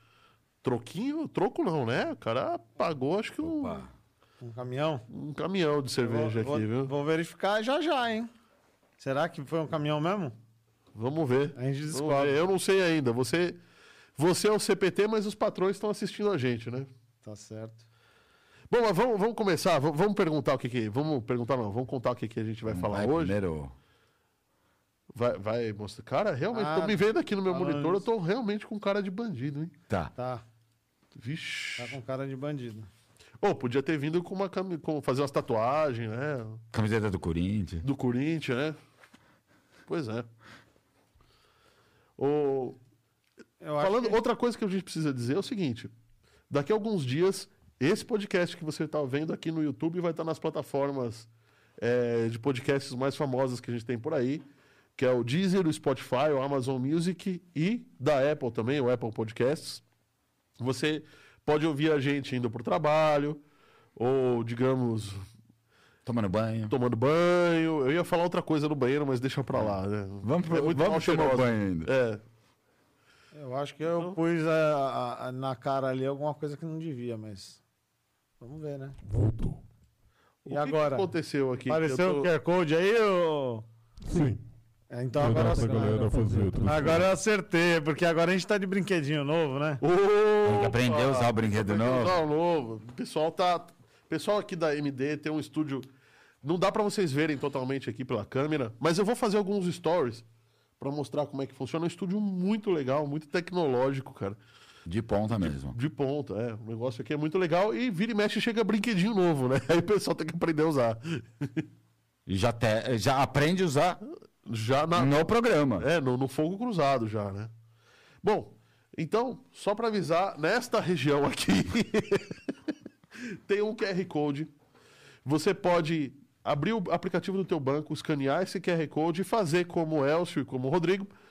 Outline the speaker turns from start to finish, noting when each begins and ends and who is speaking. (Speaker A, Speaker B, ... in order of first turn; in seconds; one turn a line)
Speaker A: 0.6-3.8
Speaker B: 3.4-3.9
Speaker C: 4.4-5.0
Speaker A: 5.1-6.9
Speaker C: 6.0-8.3
Speaker C: 9.0-10.3
Speaker A: 10.9-13.6
Speaker C: 11.6-12.4
Speaker A: 14.2-16.9
Speaker C: 17.2-17.8
Speaker A: 18.7-23.3
Speaker B: 22.6-23.7
Speaker A: 25.1-29.7
Speaker C: 26.5-28.0
Speaker C: 30.1-30.4
Speaker A: 31.2-32.0
Speaker C: 31.8-32.9
Speaker A: 33.4-36.6
Speaker B: 36.7-37.8
Speaker A: 37.8-38.8
Speaker A: 39.9-40.3
Speaker A: 42.2-42.8
Speaker C: 43.6-44.2
Speaker A: 43.8-45.9
Speaker A: 46.5-51.3
Speaker A: 51.8-54.4
Speaker A: 55.0-59.8
Speaker A: 60.6-63.4
Speaker A: 64.0-65.2
Speaker B: 66.0-66.7
Speaker A: 66.7-72.2
Speaker B: 69.5-71.9
Speaker C: 73.3-77.6
Speaker C: 78.4-79.0
Speaker D: 79.0-79.6
Speaker A: 80.4-82.3
Speaker C: 80.5-81.1
Speaker C: 81.7-83.6
Speaker D: 84.0-84.4
Speaker C: 84.9-89.8
Speaker D: 85.2-87.1
Speaker A: 89.8-95.9
Speaker B: 90.4-92.2
Speaker A: 96.4-100.2
Speaker A: 100.8-104.4
Speaker B: 104.8-105.8
Speaker A: 105.3-111.6
Speaker B: 112.3-114.0
Speaker A: 114.4-117.5
Speaker B: 114.9-115.8
Speaker A: 118.2-122.3
Speaker A: 123.2-124.5
Speaker A: 125.2-131.1